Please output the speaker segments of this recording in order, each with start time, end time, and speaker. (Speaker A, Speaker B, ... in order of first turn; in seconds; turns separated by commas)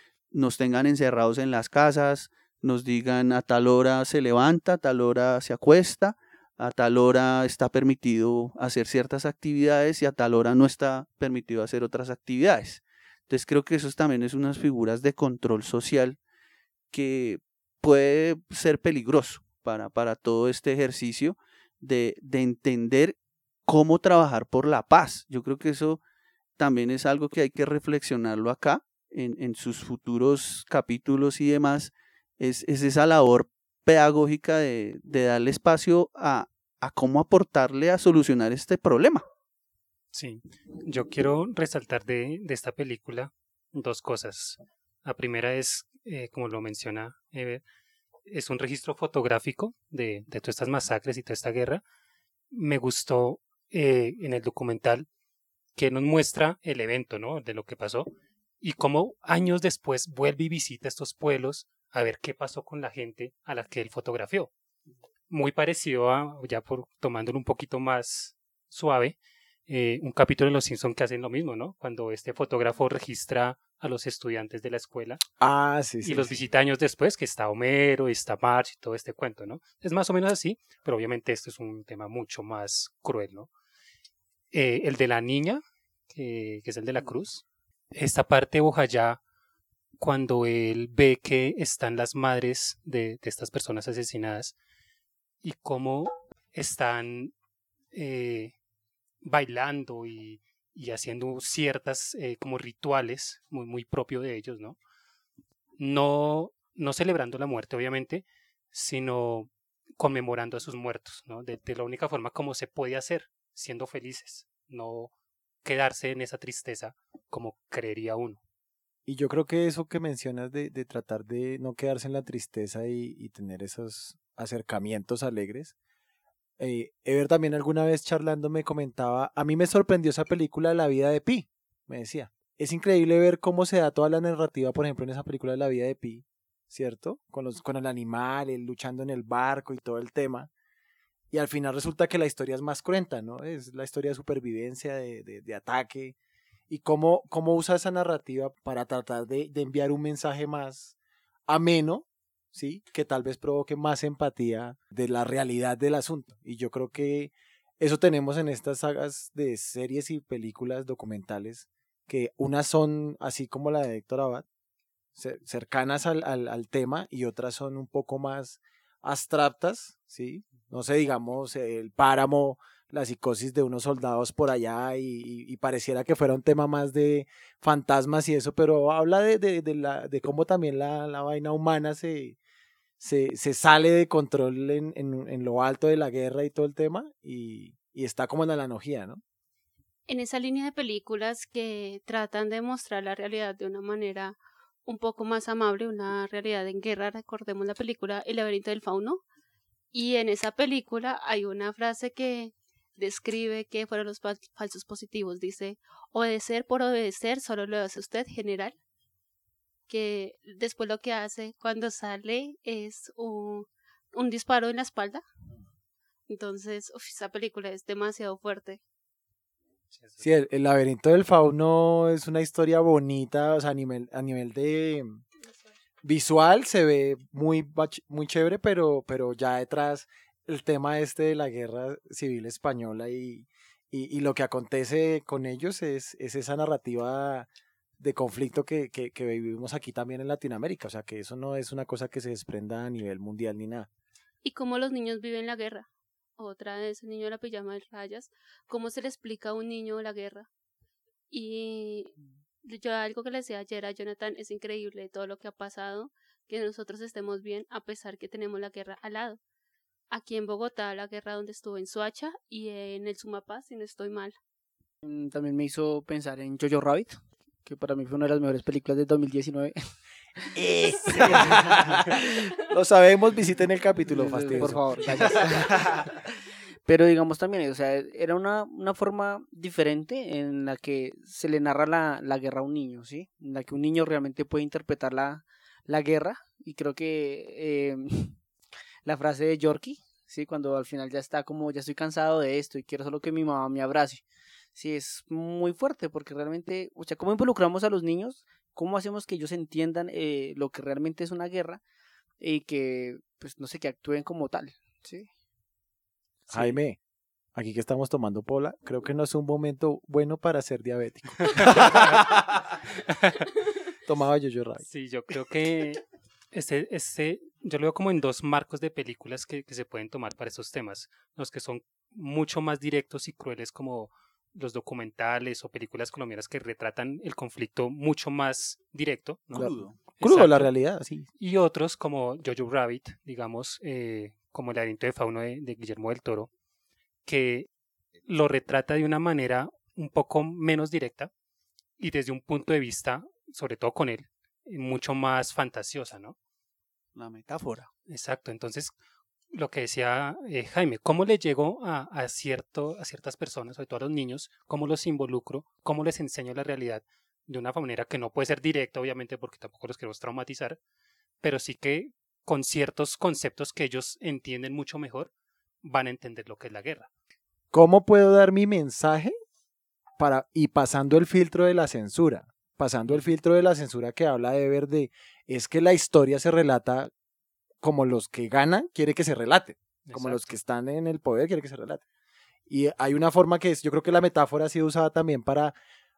Speaker A: 0.3-16.2, Speaker A: 16.9-26.0, Speaker A: 26.6-39.2, Speaker B: 40.1-47.6, Speaker B: 48.3-51.8, Speaker B: 52.5-55.1, Speaker B: 55.8-58.1, Speaker B: 58.6-64.5, Speaker B: 65.3-69.2, Speaker B: 69.7-75.2, Speaker C: 75.4-76.3, Speaker B: 76.0-83.5, Speaker B: 84.5-89.2, Speaker B: 90.0-94.5, Speaker B: 95.4-97.3, Speaker B: 97.9-98.5, Speaker B: 99.2-104.8, Speaker B: 105.8-115.1, Speaker B: 115.6-118.4, Speaker C: 119.1-125.7, Speaker C: 126.6-140.5, Speaker C: 141.3-146.2, Speaker C: 146.7-150.9, Speaker C: 151.5-164.4, Speaker C: 165.2-182.4, Speaker C: 183.0-189.2, Speaker D: 190.1-199.2, Speaker D: 199.9-208.8, Speaker D: 209.9-215.2, Speaker D: 216.3-218.8, Speaker B: 219.9-220.2, Speaker C: 220.2-225.2, Speaker C: 226.0-237.5, Speaker C: 238.0-243.9, Speaker D: 244.4-245.9, Speaker D: 246.4-250.5, Speaker D: 251.3-259.4, Speaker D: 260.1-264.4, Speaker E: 265.0-269.8, Speaker C: 270.6-276.0, Speaker E: 271.1-271.7, Speaker E: 274.1-276.2, Speaker E: 276.9-288.4, Speaker E: 289.1-294.2, Speaker E: 294.8-301.8, Speaker E: 302.4-305.3, Speaker C: 306.5-307.0, Speaker C: 307.6-312.8, Speaker B: 311.5-312.2, Speaker C: 314.1-314.8, Speaker B: 314.9-330.7, Speaker C: 329.5-331.2, Speaker A: 329.5-330.0, Speaker B: 331.4-336.5, Speaker B: 337.2-337.7, Speaker B: 338.3-341.3, Speaker B: 342.0-346.4, Speaker A: 347.2-347.9, Speaker B: 348.1-348.9, Speaker B: 349.5-360.8, Speaker B: 361.4-365.3, Speaker B: 365.8-367.1, Speaker C: 367.7-369.3, Speaker C: 370.2-377.1, Speaker C: 377.8-382.0, Speaker B: 380.1-380.5, Speaker C: 382.7-385.8